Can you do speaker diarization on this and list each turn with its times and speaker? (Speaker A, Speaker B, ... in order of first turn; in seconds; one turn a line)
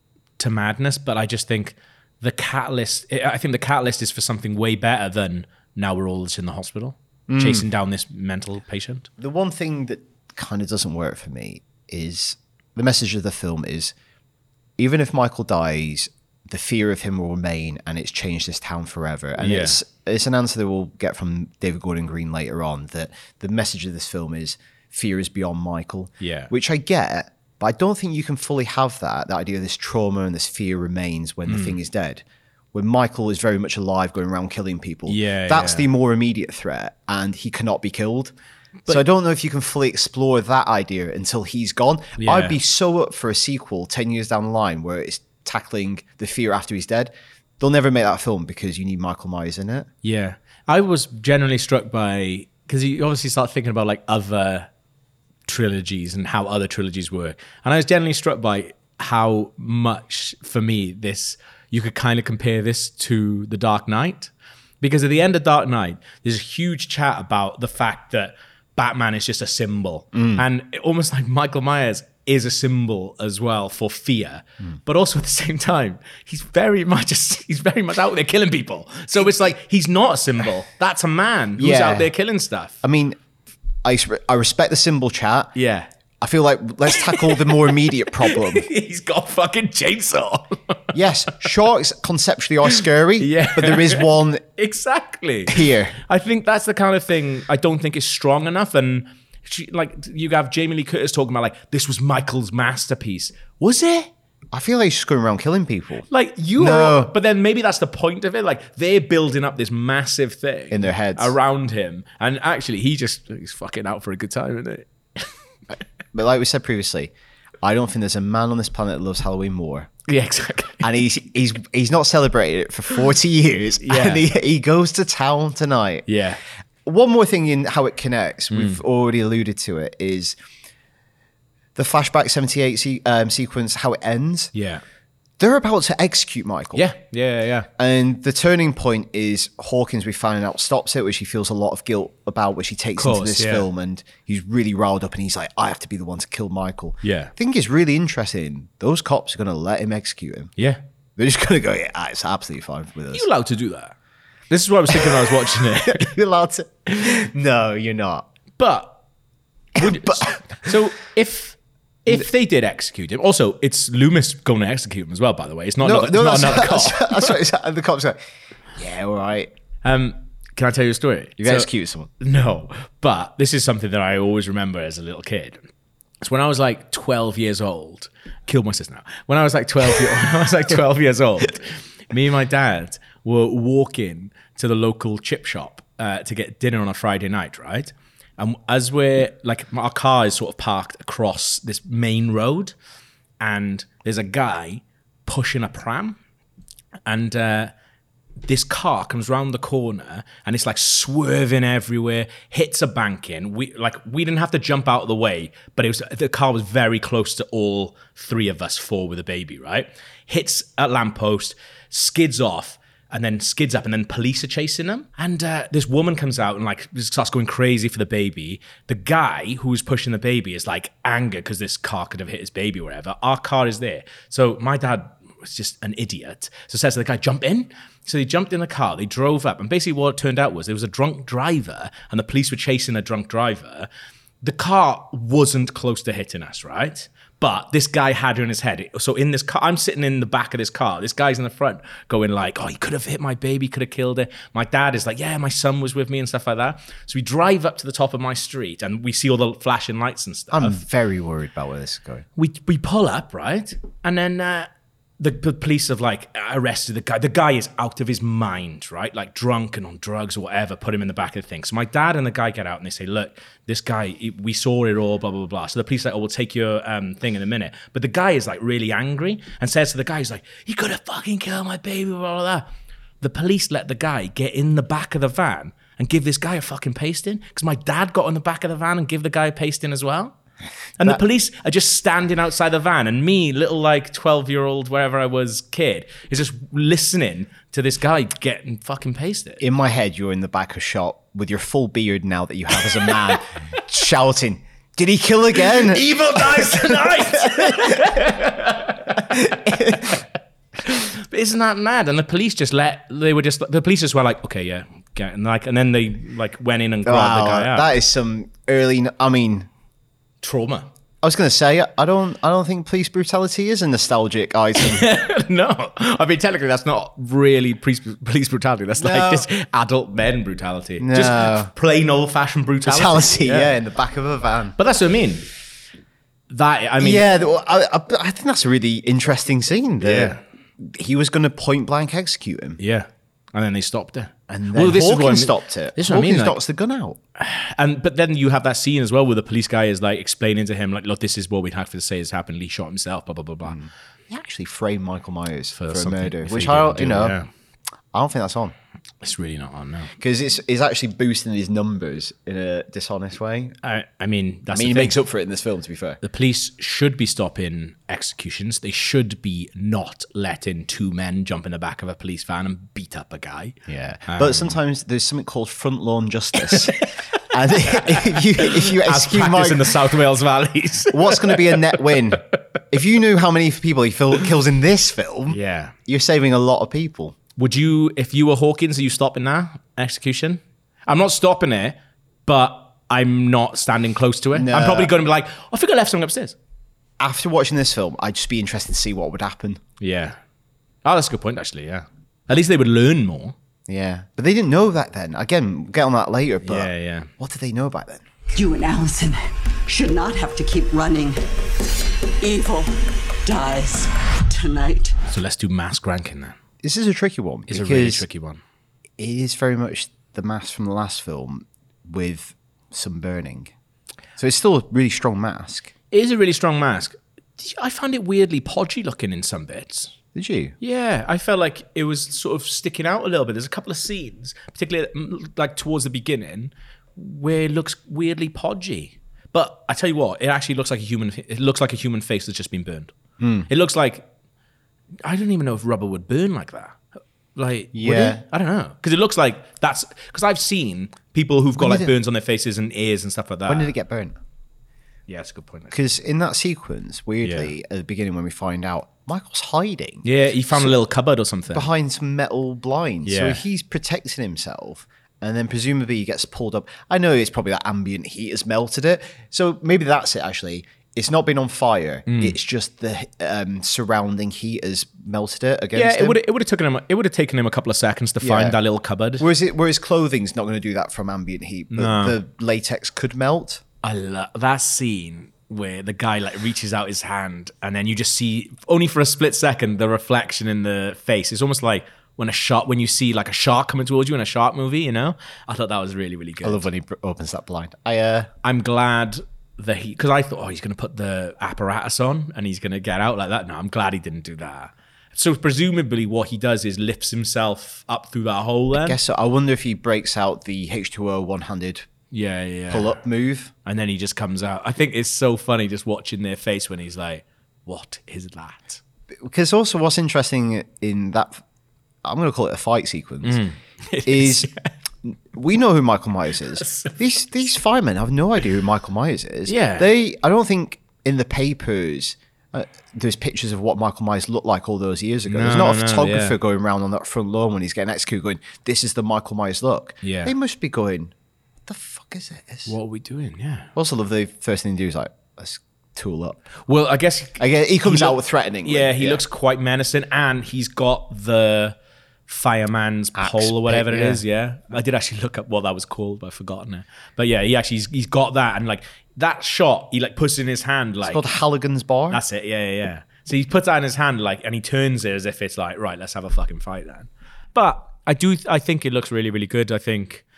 Speaker A: 0.4-9.1
Speaker B: 7.3-7.7
Speaker B: 9.2-13.9
Speaker B: 14.8-38.3
Speaker A: 19.4-19.8
Speaker A: 26.2-26.5
Speaker A: 31.5-31.8
Speaker A: 35.1-35.9
Speaker B: 38.9-49.9
Speaker A: 42.2-42.6
Speaker A: 50.0-54.7
Speaker A: 55.5-82.8
Speaker B: 70.1-70.4
Speaker B: 79.2-79.5
Speaker B: 81.6-82.1
Speaker B: 82.8-83.2
Speaker B: 83.8-85.5
Speaker A: 85.5-85.9
Speaker B: 86.2-88.7
Speaker A: 86.9-87.4
Speaker A: 88.2-90.8
Speaker B: 90.9-94.4
Speaker A: 92.7-104.1
Speaker B: 95.5-95.9
Speaker B: 104.5-107.1
Speaker A: 106.1-115.3
Speaker B: 110.7-111.3
Speaker B: 116.1-119.9
Speaker A: 120.1-120.8
Speaker B: 120.8-126.1
Speaker A: 123.8-124.3
Speaker A: 126.1-126.4
Speaker B: 126.8-130.3
Speaker A: 128.5-128.8
Speaker B: 131.7-134.5
Speaker A: 134.5-134.8
Speaker B: 135.4-136.9
Speaker A: 136.7-137.7
Speaker B: 137.8-150.5
Speaker A: 143.0-143.7
Speaker A: 147.0-147.3
Speaker B: 151.2-153.3
Speaker A: 153.1-153.9
Speaker A: 154.5-156.1
Speaker B: 154.9-158.2
Speaker A: 158.6-159.0
Speaker A: 159.8-167.3
Speaker B: 159.8-160.7
Speaker B: 165.8-168.2
Speaker B: 168.8-169.5
Speaker A: 169.8-175.6
Speaker B: 171.4-172.1
Speaker A: 176.2-192.7
Speaker A: 193.4-196.2
Speaker A: 197.1-197.7
Speaker A: 198.4-233.9
Speaker A: 234.4-250.8
Speaker B: 250.5-252.2
Speaker A: 252.3-272.7
Speaker A: 273.2-280.3
Speaker A: 281.0-289.6
Speaker B: 289.6-298.3
Speaker A: 295.7-300.2
Speaker B: 299.2-300.2
Speaker A: 300.8-307.9
Speaker B: 307.0-309.7
Speaker A: 310.4-310.9
Speaker B: 311.2-315.1
Speaker A: 314.8-323.7
Speaker B: 318.9-319.5
Speaker B: 321.0-321.7
Speaker B: 322.8-324.8
Speaker A: 324.8-325.5
Speaker A: 326.5-327.2
Speaker B: 327.0-332.8
Speaker A: 330.0-330.4
Speaker A: 332.8-336.6
Speaker B: 334.5-337.2
Speaker A: 337.4-343.8
Speaker B: 343.6-347.4
Speaker A: 345.7-347.5
Speaker B: 348.1-348.7
Speaker A: 349.2-350.1
Speaker B: 350.2-353.7
Speaker A: 353.8-355.2
Speaker B: 354.7-356.2
Speaker A: 356.2-364.8
Speaker B: 363.9-370.0
Speaker A: 366.6-367.0
Speaker A: 367.9-372.2
Speaker B: 371.1-377.4
Speaker A: 375.5-375.9
Speaker A: 377.6-386.6
Speaker B: 384.5-385.1
Speaker B: 387.2-389.8
Speaker A: 390.0-390.4
Speaker A: 391.0-393.5
Speaker B: 393.9-398.2
Speaker A: 396.6-397.3
Speaker C: 398.5-399.4
Speaker C: 399.9-401.4
Speaker C: 402.4-402.9
Speaker C: 403.4-405.1
Speaker A: 405.3-406.6
Speaker B: 406.8-408.2
Speaker A: 407.7-408.6
Speaker B: 409.2-413.7
Speaker B: 414.4-415.9
Speaker A: 416.1-420.1
Speaker B: 420.3-420.8
Speaker A: 420.8-433.1
Speaker B: 433.4-433.7
Speaker A: 433.7-434.2
Speaker A: 435.2-437.0
Speaker A: 437.6-443.9
Speaker B: 437.9-438.4
Speaker B: 441.8-442.1
Speaker B: 443.7-444.4
Speaker A: 445.3-446.0
Speaker B: 445.9-450.9
Speaker A: 447.4-447.7
Speaker A: 450.2-451.9
Speaker B: 451.7-466.4
Speaker A: 453.2-453.6
Speaker A: 462.3-462.6
Speaker A: 465.9-469.4
Speaker B: 468.4-468.8
Speaker B: 469.4-473.8
Speaker A: 471.9-472.4
Speaker A: 474.0-486.9
Speaker B: 486.6-488.5
Speaker A: 488.6-499.2
Speaker B: 498.9-502.1
Speaker A: 502.3-503.1
Speaker B: 502.9-503.7
Speaker A: 503.8-509.0
Speaker B: 509.4-511.6
Speaker B: 512.2-513.6
Speaker A: 513.4-514.9
Speaker B: 514.2-514.7
Speaker B: 515.2-531.3
Speaker A: 516.8-517.2
Speaker A: 519.7-520.1
Speaker A: 525.5-526.5
Speaker A: 530.2-530.5
Speaker B: 531.9-532.9
Speaker A: 532.9-533.9
Speaker B: 533.9-536.6
Speaker A: 536.9-542.0
Speaker B: 537.6-539.4
Speaker A: 542.5-551.4
Speaker B: 543.4-544.4
Speaker B: 551.2-552.4
Speaker A: 552.3-560.4